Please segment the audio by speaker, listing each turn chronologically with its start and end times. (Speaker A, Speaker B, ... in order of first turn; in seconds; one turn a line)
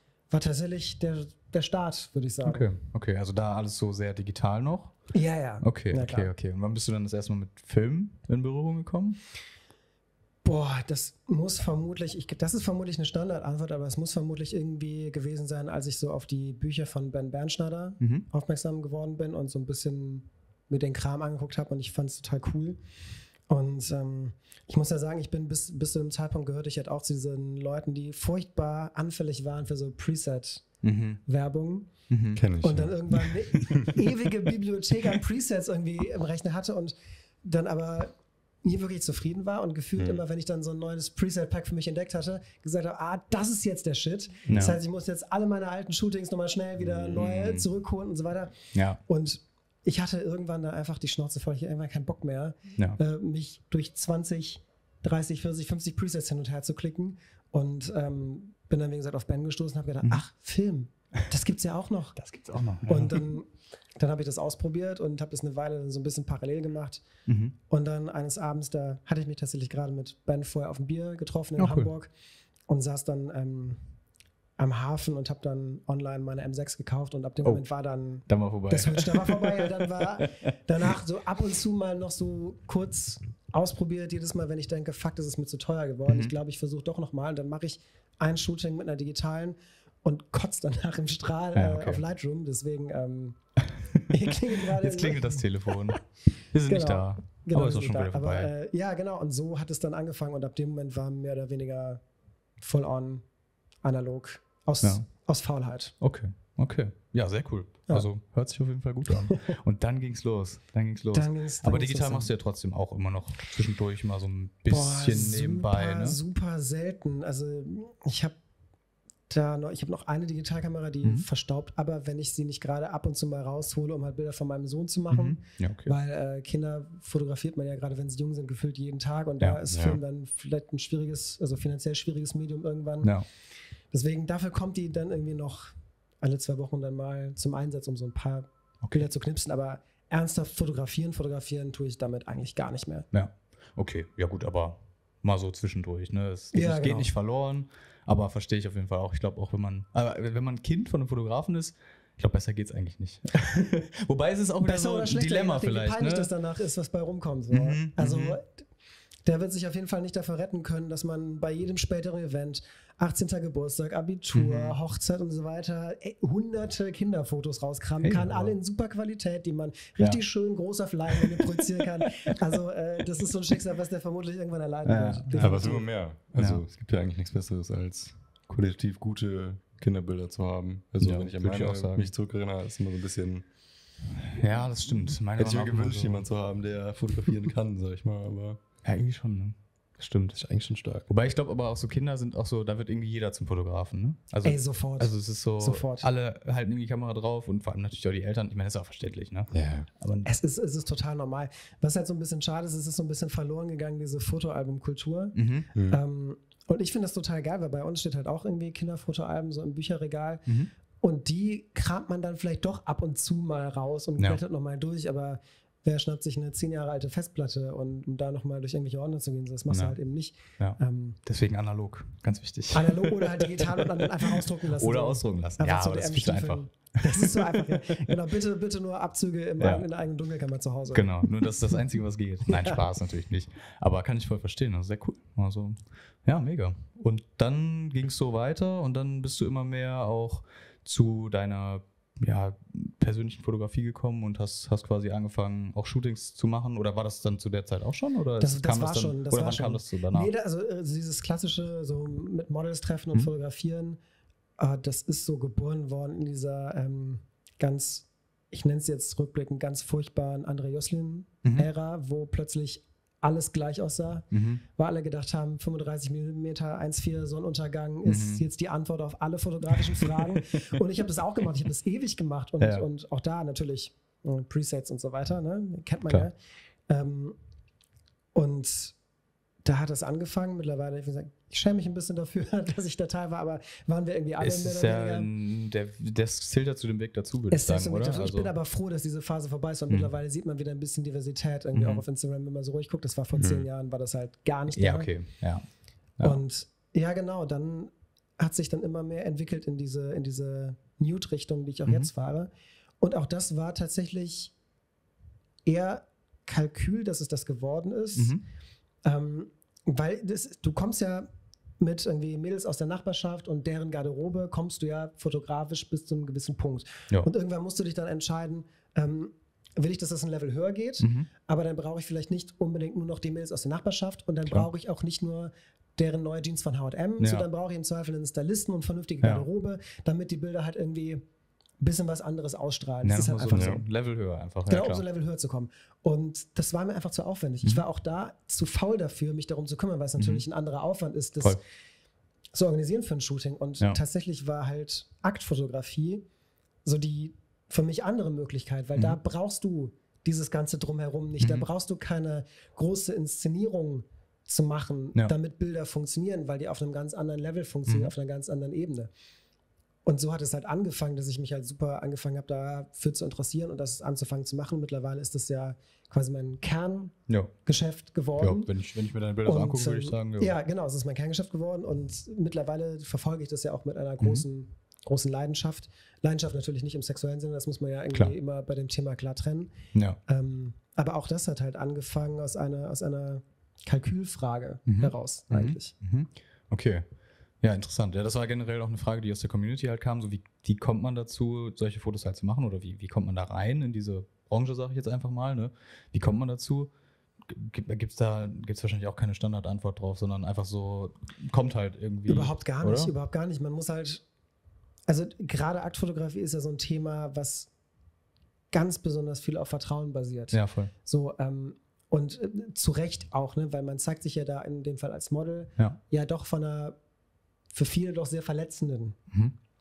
Speaker A: 0.3-2.6
Speaker B: 2.4-5.0
Speaker A: 5.1-6.3
Speaker B: 5.6-9.2
Speaker A: 10.4-22.8
Speaker B: 18.0-18.2
Speaker A: 23.5-30.6
Speaker B: 30.8-31.2
Speaker A: 31.2-31.9
Speaker B: 32.1-32.4
Speaker C: 32.4-33.9
Speaker A: 32.6-62.2
Speaker B: 44.5-44.8
Speaker B: 47.1-47.6
Speaker B: 48.7-49.0
Speaker B: 62.1-63.2
Speaker A: 62.9-67.0
Speaker B: 67.3-67.5
Speaker A: 67.7-72.1
Speaker B: 71.6-71.9
Speaker A: 72.7-73.8
Speaker A: 74.6-93.4
Speaker B: 78.3-80.5
Speaker B: 86.0-86.3
Speaker B: 91.5-92.0
Speaker A: 94.0-96.0
Speaker B: 94.7-98.5
Speaker A: 96.6-102.0
Speaker A: 102.6-103.2
Speaker A: 103.8-105.9
Speaker B: 106.0-116.2
Speaker A: 109.3-109.5
Speaker A: 111.1-112.3
Speaker A: 114.7-118.3
Speaker A: 119.3-133.1
Speaker B: 125.1-125.9
Speaker C: 129.7-130.0
Speaker A: 133.9-143.1
Speaker B: 143.1-156.3
Speaker A: 146.5-147.1
Speaker A: 154.6-158.5
Speaker B: 157.5-158.4
Speaker A: 159.2-175.8
Speaker B: 164.3-164.8
Speaker B: 168.0-168.5
Speaker B: 174.8-175.8
Speaker C: 175.4-183.5
Speaker B: 176.4-176.6
Speaker B: 181.0-182.1
Speaker B: 184.3-186.3
Speaker C: 185.4-188.6
Speaker B: 188.8-190.4
Speaker C: 190.3-191.1
Speaker B: 191.1-200.3
Speaker A: 194.4-196.1
Speaker C: 199.5-199.9
Speaker A: 200.2-210.4
Speaker B: 205.3-205.7
Speaker C: 205.7-206.0
Speaker A: 211.0-221.2
Speaker B: 219.7-220.0
Speaker B: 220.6-228.0
Speaker A: 222.7-231.3
Speaker B: 229.6-229.8
Speaker B: 230.9-250.3
Speaker A: 232.5-232.8
Speaker A: 248.4-254.0
Speaker A: 254.6-276.3
Speaker B: 264.3-264.6
Speaker B: 268.1-268.4
Speaker B: 269.8-270.8
Speaker B: 272.6-272.9
Speaker A: 276.9-277.4
Speaker A: 278.3-278.9
Speaker A: 279.6-285.3
Speaker B: 284.4-288.5
Speaker A: 287.5-295.1
Speaker B: 291.7-292.0
Speaker B: 294.8-295.6
Speaker A: 296.2-302.5
Speaker B: 301.9-302.1
Speaker A: 303.0-304.5
Speaker A: 305.6-308.4
Speaker B: 308.2-308.4
Speaker A: 309.0-311.3
Speaker A: 311.8-331.2
Speaker B: 321.0-321.3
Speaker B: 327.2-327.5
Speaker B: 329.2-329.5
Speaker A: 331.8-333.9
Speaker B: 333.0-335.0
Speaker C: 333.5-333.8
Speaker A: 334.7-341.6
Speaker B: 340.2-340.4
Speaker A: 342.5-346.2
Speaker A: 346.8-359.1
Speaker B: 351.4-351.6
Speaker B: 357.9-358.1
Speaker A: 360.1-368.7
Speaker B: 367.3-367.5
Speaker B: 368.4-370.6
Speaker A: 369.4-385.9
Speaker B: 374.2-374.4
Speaker B: 384.9-387.1
Speaker B: 387.6-396.9
Speaker B: 397.4-403.1
Speaker A: 402.3-404.2
Speaker A: 405.1-407.7
Speaker A: 408.7-417.0
Speaker B: 410.5-410.9
Speaker A: 417.7-419.2